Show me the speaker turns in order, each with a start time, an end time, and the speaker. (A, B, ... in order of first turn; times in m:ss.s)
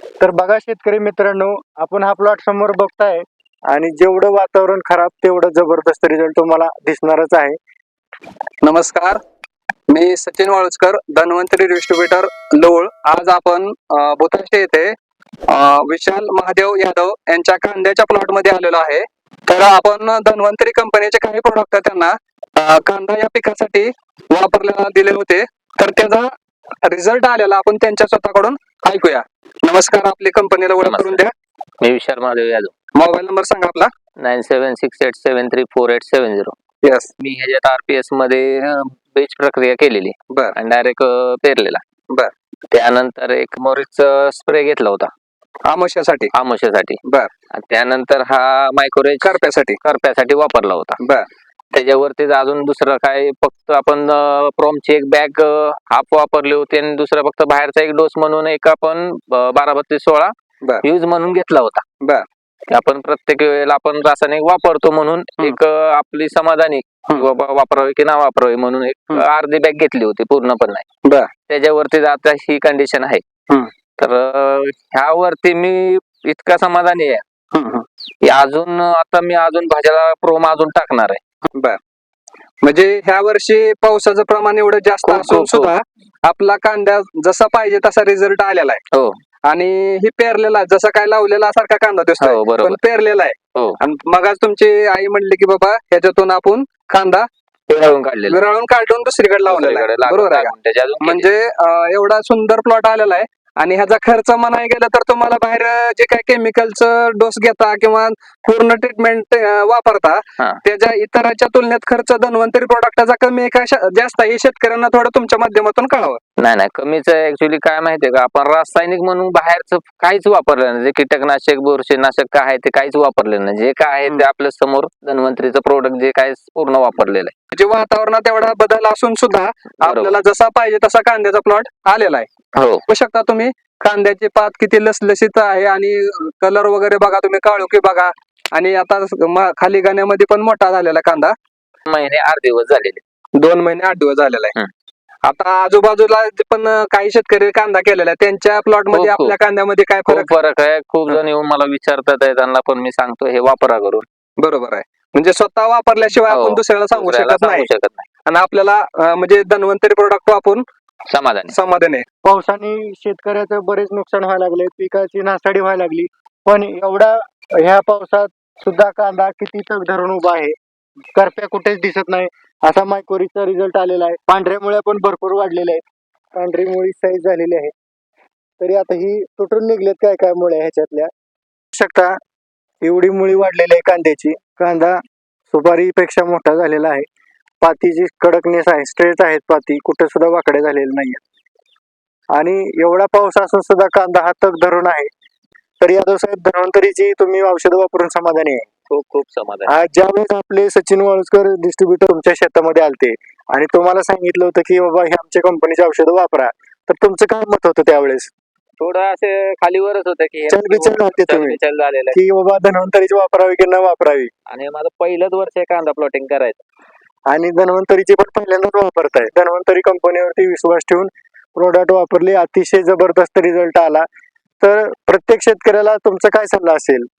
0:00.2-0:07.6 A
0:08.6-0:09.2 B
0:09.9-0:14.9 B
0:15.5-0:26.3 B
0:26.8-0:31.3 B
0:30.8-0:31.2 C
0:31.8-0:32.7 C
0:33.0-0:33.9 B
0:34.2-0:36.6 C
0:36.8-0:37.1 B
0:37.2-0:41.8 C
0:42.7-0:45.1 C
0:45.7-0:46.3 B
0:46.3-0:47.0 C
0:47.0-0:47.3 B
0:47.5-0:51.0 C
0:49.2-0:49.8 B
0:51.0-0:51.2 B
0:51.7-1:01.8 C
1:02.7-1:10.8 C
1:11.5-1:13.2 C
1:14.0-1:17.2 C
1:17.5-1:17.8 B
1:18.2-1:21.2 C
1:22.6-1:28.8 B
1:25.0-1:25.7 C
1:29.5-1:37.2 B
1:32.2-1:32.8 C
1:37.7-1:38.4 C
1:38.3-1:56.2 B
1:39.4-1:41.3 C
1:56.4-2:07.3 C
2:07.5-2:12.3 B
2:09.8-2:10.2 C
2:12.6-2:12.8 C
2:12.9-2:21.3 B
2:21.9-2:23.0 C
2:23.4-2:24.5 B
2:25.2-2:30.3 B
2:28.9-2:29.3 C
2:30.1-2:34.1 C
2:34.4-2:37.7 B
2:36.3-2:38.1 C
2:38.3-2:40.6 B
2:41.1-2:41.6 C
2:41.5-2:42.0 B
2:42.2-2:50.6 A
2:51.2-2:55.8 A
2:56.3-2:57.7 A
2:58.6-3:01.1 A
3:01.7-3:02.2 A
3:02.8-3:05.0 A
3:05.5-3:07.1 A
3:07.6-3:11.2 A
3:12.3-3:15.1 A
3:15.8-3:18.7 A
3:18.9-3:19.7 C
3:19.7-3:28.3 A
3:28.8-3:32.2 C
3:30.5-3:31.6 A
3:32.1-3:34.3 A
3:34.5-3:36.6 C
3:37.3-3:44.1 A
3:44.6-3:47.1 A